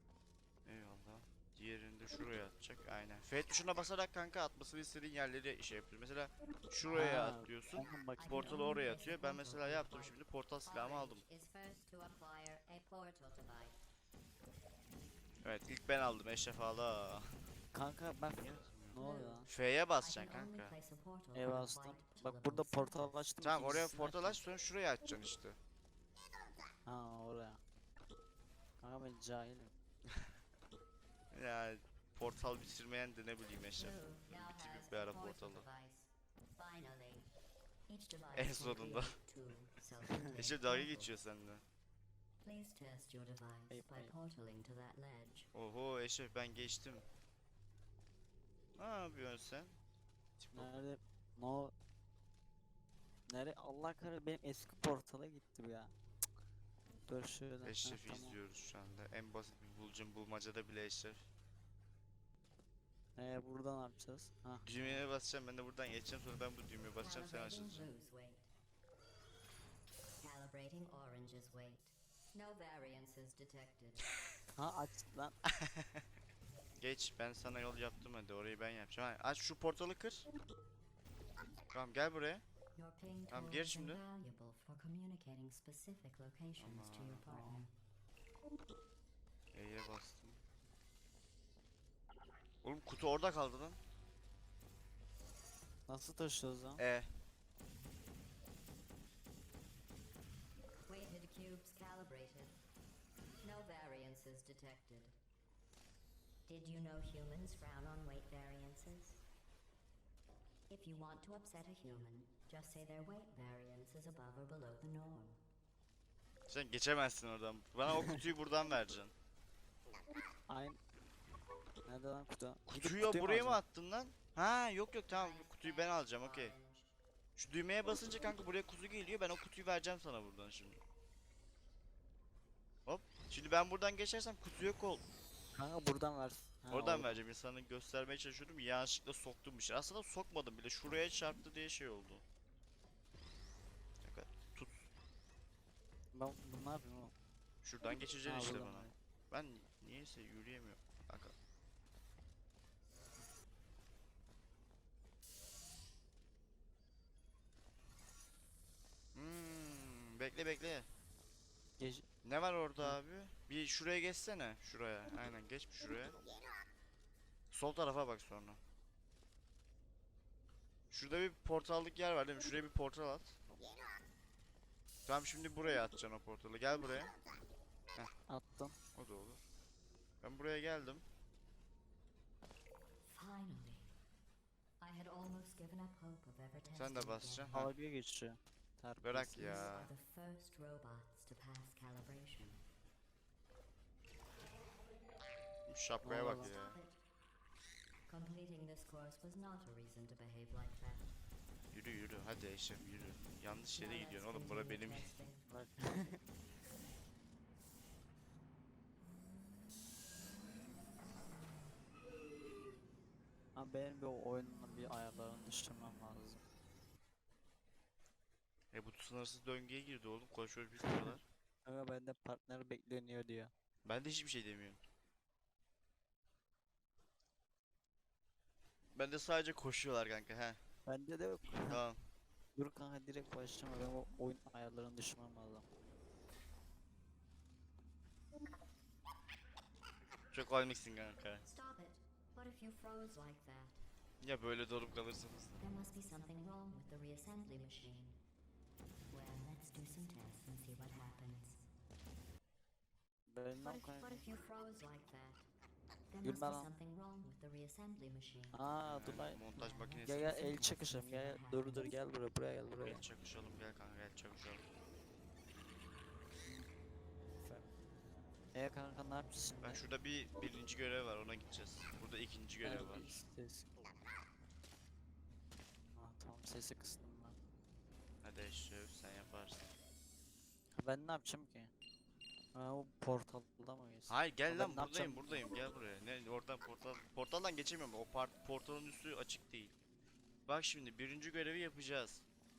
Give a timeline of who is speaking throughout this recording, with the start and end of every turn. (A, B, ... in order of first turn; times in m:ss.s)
0:00.6-0:11.2 A
0:06.8-0:07.1 B
0:06.9-0:08.6 C
0:08.2-0:13.8 B
0:15.4-0:17.3 A
0:17.7-0:19.5 C
0:18.3-0:20.7 A
0:19.0-0:23.2 B
0:21.3-0:24.4 C
0:23.4-0:25.6 A
0:26.8-0:27.6 C
0:28.8-0:29.7 C
0:31.3-0:35.7 A
0:33.8-0:37.3 B
0:37.9-0:41.1 B
0:38.3-0:39.2 A
0:40.3-0:41.6 A
0:42.4-0:45.5 B
0:43.7-0:44.1 C
0:45.5-0:47.0 A
0:48.8-0:49.8 A
0:50.4-0:50.7 A
0:50.5-0:51.7 C
0:53.3-0:55.9 C
0:57.1-0:58.4 C
0:57.6-1:01.2 A
1:03.2-1:04.7 C
1:04.6-1:07.8 A
1:07.0-1:08.5 B
1:10.2-1:14.1 B
1:14.6-1:15.3 C
1:15.4-1:16.1 A
1:16.8-1:20.3 A
1:21.7-1:22.4 A
1:22.7-1:27.7 B
1:23.3-1:24.0 A
1:26.6-1:27.3 A
1:27.3-1:27.6 C
1:29.5-1:30.4 A
1:32.6-1:33.8 A
1:35.9-1:36.8 C
1:36.8-1:37.1 A
1:40.8-1:42.6 B
1:43.4-1:45.2 B
1:46.4-1:49.2 B
1:50.7-1:55.4 B
1:56.5-1:59.1 A
2:00.5-2:00.8 C
2:01.9-2:03.6 C
2:02.7-2:06.5 A
2:05.1-2:06.9 B
2:07.4-2:10.8 A
2:12.8-2:15.0 A
2:15.5-2:17.2 C
2:16.7-2:22.2 A
2:24.0-2:24.8 A
2:26.1-2:27.1 C
2:27.6-2:31.3 A
2:28.2-2:28.9 C
2:39.1-2:40.9 A
2:41.8-2:42.0 C
2:42.2-2:46.2 A
2:47.5-2:48.6 A
2:50.9-2:53.4 A
2:55.0-2:57.1 A
2:58.3-2:58.8 C
2:58.9-2:59.4 A
3:00.2-3:01.0 A
3:03.0-3:03.9 B
3:04.8-3:07.6 B
3:06.7-3:07.7 A
3:07.5-3:09.6 C
3:09.0-3:09.9 A
3:09.4-3:12.6 B
3:15.6-3:16.8 A
3:16.0-3:16.5 C
3:16.1-3:17.0 B
3:18.1-3:21.2 B
3:21.7-3:25.1 A
3:23.8-3:25.5 B
3:25.5-3:26.2 C
3:33.5-3:36.4 C
3:38.7-3:41.2 A
3:40.8-3:43.5 C
3:43.8-3:44.8 A
3:48.9-3:50.6 A
3:50.8-3:51.8 C
3:51.6-3:52.0 A
3:52.6-3:55.6 C
4:00.3-4:01.4 A
4:01.4-4:03.8 B
4:04.2-4:05.6 A
4:05.6-4:08.2 B
4:09.1-4:11.7 B
4:13.3-4:14.2 C
4:13.6-4:15.5 B
4:16.1-4:18.7 B
4:16.2-4:16.7 C
4:18.5-4:19.4 C
4:18.8-4:20.3 A
4:19.5-4:21.9 B
4:20.0-4:23.0 C
4:22.8-4:24.6 A
4:26.4-4:26.7 C
4:28.5-4:29.8 C
4:29.6-4:33.1 A
4:32.6-4:33.7 C
4:35.9-4:37.4 C
4:38.2-4:39.7 A
4:40.7-4:41.7 C
4:42.5-4:45.4 C
4:44.1-4:49.7 A
4:50.5-4:52.2 A